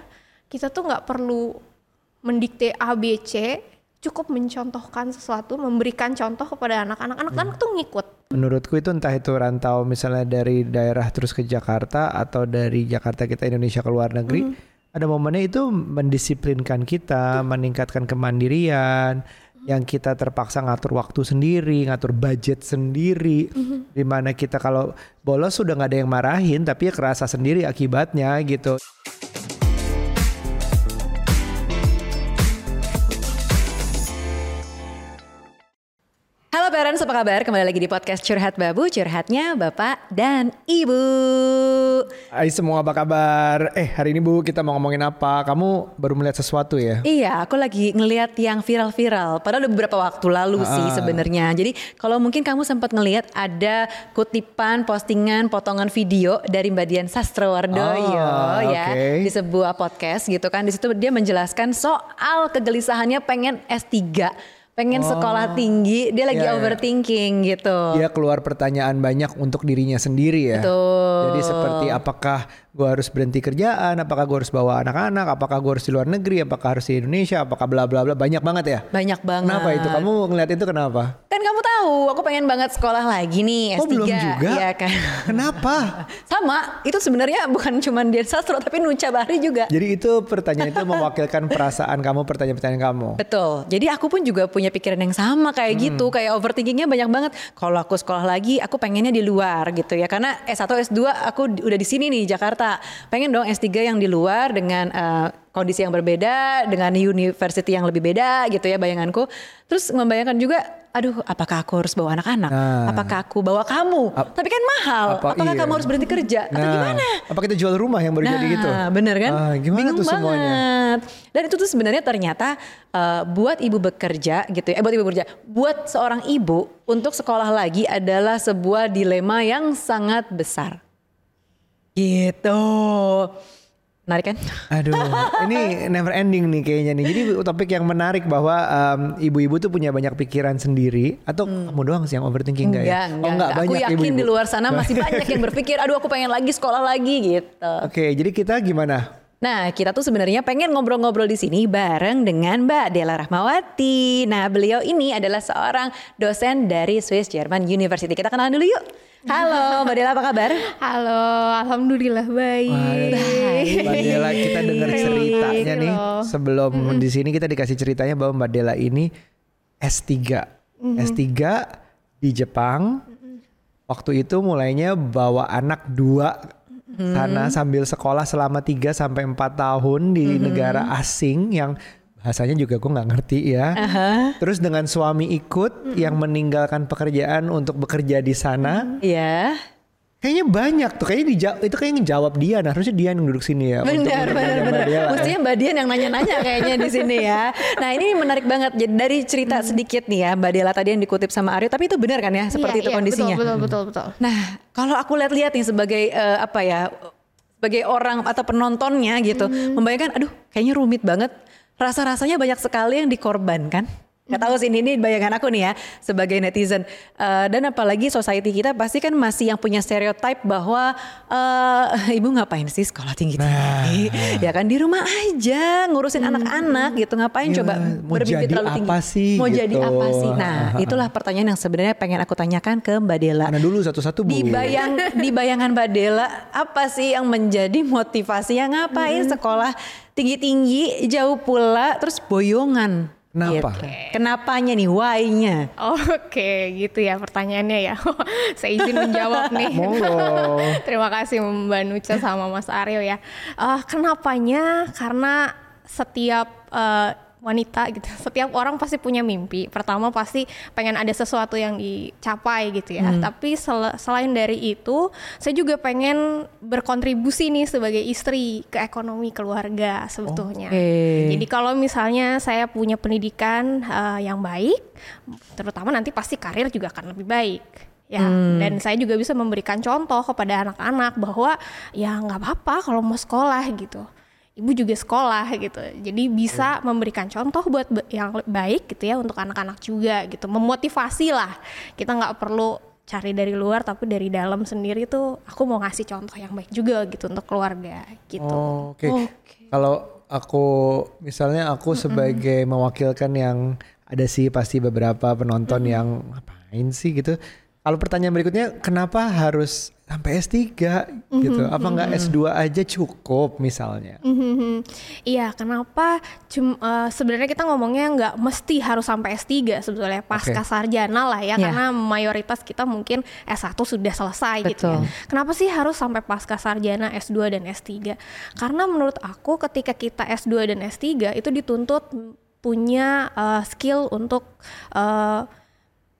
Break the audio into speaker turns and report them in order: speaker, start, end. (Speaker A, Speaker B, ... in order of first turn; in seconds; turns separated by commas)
Speaker A: 0.5-1.6, Speaker A: 2.2-8.2, Speaker B: 8.3-28.8, Speaker C: 36.5-42.1, Speaker B: 42.3-47.0, Speaker C: 47.0-68.0, Speaker B: 50.6-51.2, Speaker B: 57.7-59.3, Speaker B: 64.9-65.7, Speaker B: 66.3-66.8, Speaker B: 67.9-78.9, Speaker C: 70.5-72.0, Speaker C: 78.9-80.1, Speaker B: 79.4-81.2, Speaker C: 81.3-89.7, Speaker B: 83.8-84.7, Speaker B: 85.2-86.0, Speaker B: 89.7-93.2, Speaker C: 90.6-91.0, Speaker C: 93.2-117.2, Speaker B: 95.7-96.1, Speaker B: 112.5-113.2, Speaker B: 115.1-115.9, Speaker B: 116.5-120.6, Speaker C: 118.2-130.8, Speaker C: 132.0-133.3, Speaker C: 134.1-135.7, Speaker B: 134.7-145.6, Speaker C: 141.5-141.8, Speaker C: 142.6-147.9, Speaker B: 147.8-149.1, Speaker C: 149.4-160.7, Speaker A: 159.3-159.9, Speaker A: 160.6-167.1, Speaker B: 162.7-169.1, Speaker C: 163.1-165.7, Speaker B: 169.8-171.7, Speaker A: 170.8-171.2, Speaker B: 172.2-173.0, Speaker B: 173.9-176.4, Speaker C: 176.9-177.6, Speaker B: 177.1-183.8, Speaker C: 180.2-180.9, Speaker C: 183.8-184.4, Speaker B: 184.4-188.9, Speaker C: 189.0-189.6, Speaker B: 190.2-195.3, Speaker C: 193.8-203.4, Speaker A: 196.6-197.1, Speaker A: 202.5-204.2, Speaker C: 204.2-233.6, Speaker A: 209.3-209.8, Speaker B: 223.4-224.5, Speaker A: 226.2-227.0, Speaker B: 227.4-231.1, Speaker B: 233.4-234.8, Speaker C: 234.2-245.7, Speaker A: 239.0-239.4, Speaker B: 243.3-243.8, Speaker A: 243.7-244.1, Speaker A: 245.8-284.1, Speaker C: 248.8-249.7, Speaker B: 249.7-250.8, Speaker C: 263.0-263.3, Speaker C: 270.7-271.4, Speaker C: 278.2-278.8, Speaker A: 284.6-298.8, Speaker B: 298.4-314.2, Speaker C: 299.1-299.4, Speaker A: 302.0-302.4, Speaker A: 311.4-312.2, Speaker C: 312.0-312.3, Speaker A: 314.2-335.5, Speaker B: 320.3-320.6, Speaker C: 324.6-325.0